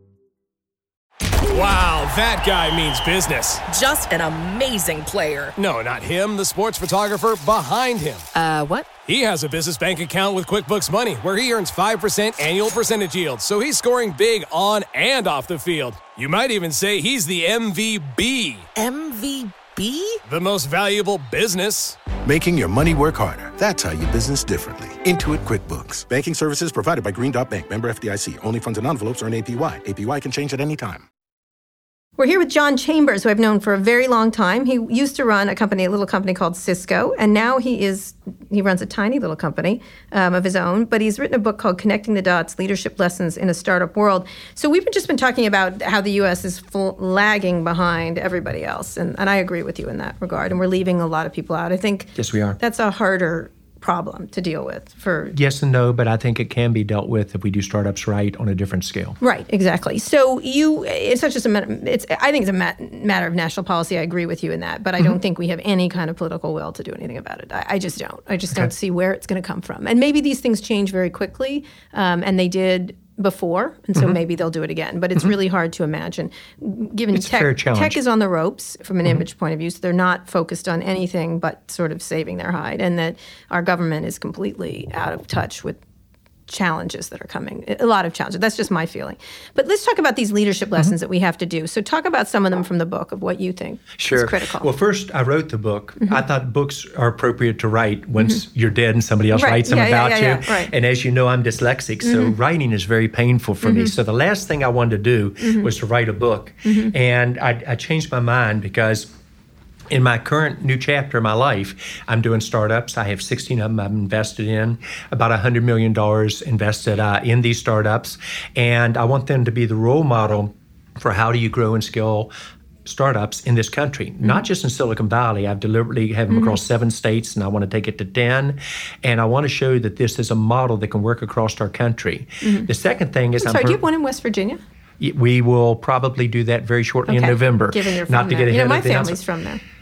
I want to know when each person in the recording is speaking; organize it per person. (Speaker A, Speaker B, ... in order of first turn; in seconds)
Speaker A: 1.5-3.6, 5.6-8.3, 9.1-18.7, 20.3-22.0
Speaker B: 3.7-5.5, 8.3-8.9, 18.8-20.2
Speaker C: 22.2-31.1
Speaker D: 32.2-55.4, 59.2-85.8, 86.5-94.7, 99.3-100.7, 102.0-102.3, 105.4-105.7, 106.7-106.9, 126.3-126.6, 132.4-132.7, 133.4-134.6, 137.1-139.6
Speaker E: 52.2-52.6, 55.3-59.2, 77.1-78.0, 94.0-109.1, 109.9-122.3, 122.8-133.8, 135.0-139.2